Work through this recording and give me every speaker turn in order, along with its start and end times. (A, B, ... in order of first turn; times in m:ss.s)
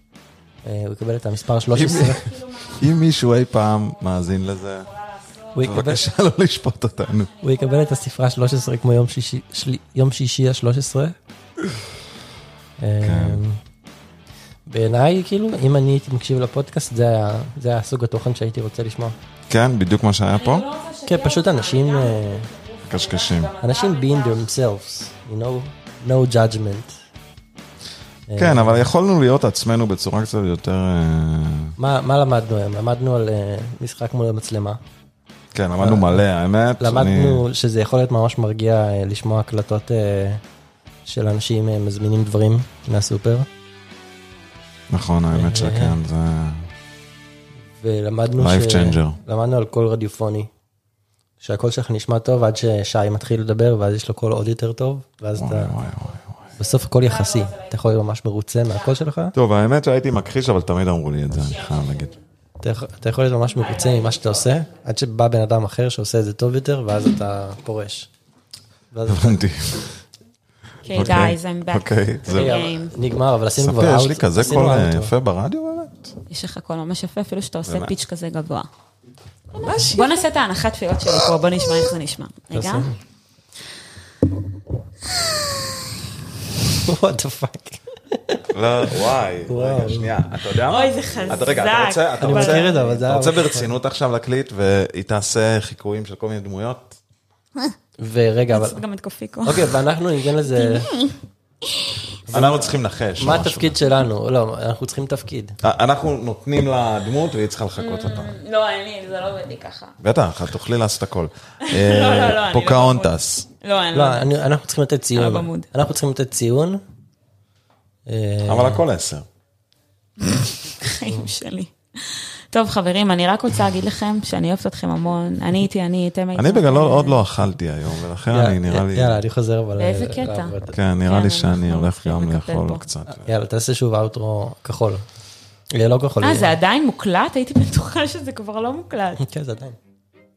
0:00.6-0:02.2 A
0:01.7-0:06.0 B
0:01.7-0:04.9 C
0:05.5-0:06.1 A
0:05.6-0:07.3 C
0:07.0-0:08.8 B
0:07.4-0:11.1 A
0:12.8-0:13.6 A
0:13.0-0:13.4 C
0:14.7-0:19.1 A
0:19.5-0:20.6 C
0:20.3-0:24.5 B
0:21.0-0:22.5 A
0:22.9-0:23.5 C
0:23.6-0:26.9 A
0:28.3-0:28.8 A
0:28.4-0:31.7 C
0:31.8-0:34.8 A
0:35.5-0:37.4 C
0:35.8-0:36.2 A
0:36.8-0:40.4 A
0:41.0-0:43.5 A
0:44.9-0:46.7 C
0:45.3-0:46.0 A
0:47.7-0:50.5 A
0:48.4-0:49.2 C
0:51.4-0:55.7 A
0:55.3-0:56.5 C
0:56.6-0:57.8 B
0:56.6-0:59.3 A
0:59.3-1:02.1 C
1:01.4-1:02.2 B
1:02.6-1:08.1 A
1:03.5-1:04.6 B
1:08.9-1:09.4 A
1:09.0-1:10.0 C
1:10.8-1:13.0 B
1:10.9-1:12.6 C
1:12.3-1:15.1 A
1:13.5-1:16.1 C
1:16.3-1:18.7 B
1:17.7-1:18.0 C
1:19.6-1:20.2 A
1:19.6-1:22.9 B
1:22.5-1:22.9 A
1:26.8-1:28.4 A
1:28.5-1:37.0 C
1:28.9-1:30.2 A
1:30.6-1:32.8 B
1:32.2-1:33.7 A
1:38.0-1:38.8 A
1:38.5-1:39.8 B
1:39.4-1:40.9 A
1:40.5-1:41.2 B
1:41.7-1:42.0 B
1:42.3-1:45.6 A
1:42.3-1:43.8 C
1:45.6-1:48.4 C
1:47.8-1:49.9 B
1:50.0-1:53.5 C
1:51.6-1:54.4 B
1:53.9-1:56.8 A
1:55.1-1:55.7 B
1:58.1-1:58.8 A
1:58.4-1:59.2 C
2:00.2-2:07.2 B
2:06.3-2:09.2 C
2:08.3-2:10.8 A
2:09.8-2:12.8 B
2:10.7-2:13.3 C
2:13.2-2:15.0 A
2:15.7-2:16.6 A
2:16.2-2:19.2 B
2:19.2-2:19.8 A